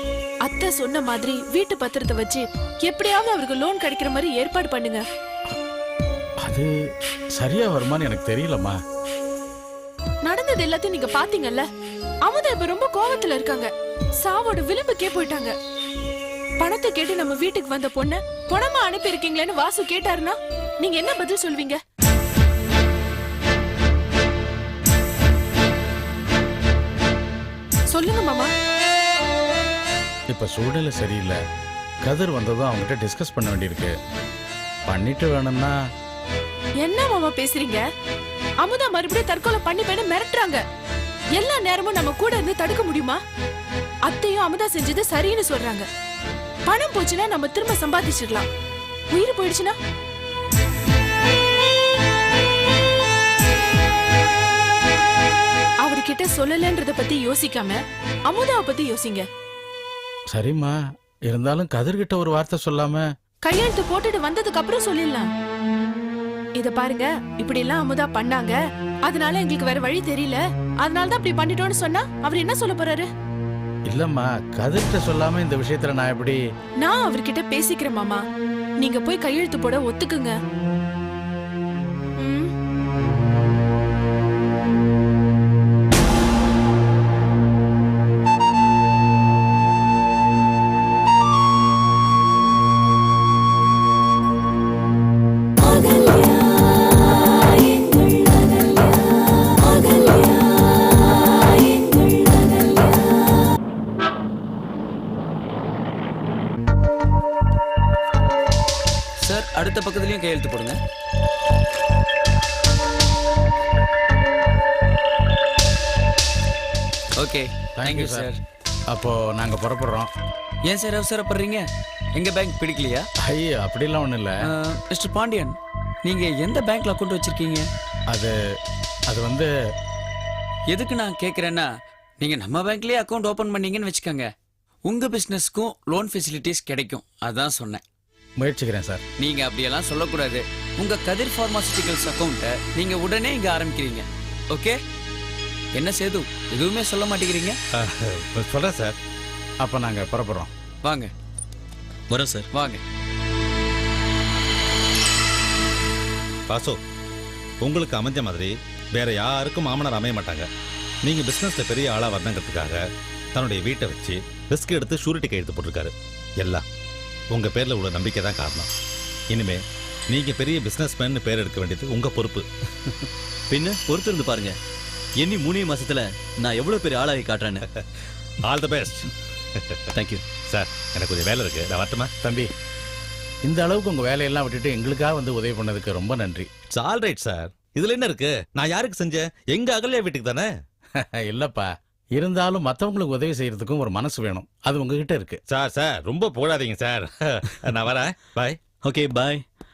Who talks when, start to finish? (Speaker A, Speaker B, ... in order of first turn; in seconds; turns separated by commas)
Speaker A: 0.4-5.0, Speaker B: 6.4-6.7, Speaker B: 7.4-8.8, Speaker A: 10.2-11.7, Speaker A: 12.2-15.5, Speaker A: 16.6-21.8, Speaker A: 27.9-28.5, Speaker B: 30.3-31.4, Speaker B: 32.0-34.0, Speaker B: 34.9-35.7, Speaker A: 36.8-37.8, Speaker A: 38.6-40.6, Speaker A: 41.4-43.2, Speaker A: 44.1-45.9, Speaker A: 46.7-48.5, Speaker A: 49.1-49.8, Speaker A: 55.8-59.3, Speaker B: 60.3-60.7, Speaker B: 61.3-63.0, Speaker A: 63.5-65.3, Speaker A: 66.6-73.1, Speaker B: 73.9-76.4, Speaker A: 76.8-78.2, Speaker A: 78.8-80.4, Speaker A: 82.2-82.5, Speaker C: 109.2-110.8, Speaker C: 117.2-118.4, Speaker B: 117.8-118.3, Speaker B: 118.9-120.1, Speaker C: 120.6-123.1, Speaker B: 123.2-124.5, Speaker C: 124.4-127.7, Speaker B: 129.1-129.5, Speaker C: 130.7-134.3, Speaker C: 134.8-137.8, Speaker B: 138.4-139.0, Speaker C: 139.2-144.8, Speaker C: 145.7-147.6, Speaker D: 147.7-148.9, Speaker B: 149.6-150.5, Speaker C: 150.8-151.1, Speaker E: 152.1-152.5, Speaker C: 152.5-152.8, Speaker D: 156.5-156.8, Speaker D: 157.6-160.5, Speaker D: 161.0-162.8, Speaker D: 163.3-166.6, Speaker D: 167.3-168.7, Speaker D: 169.3-172.9, Speaker E: 173.5-174.6, Speaker E: 175.2-177.6, Speaker D: 178.4-179.1, Speaker E: 180.0-180.2, Speaker D: 180.5-182.1, Speaker B: 182.2-182.5, Speaker B: 183.4-186.5, Speaker D: 186.7-190.5, Speaker B: 191.2-195.4, Speaker D: 195.5-198.6, Speaker E: 198.8-199.4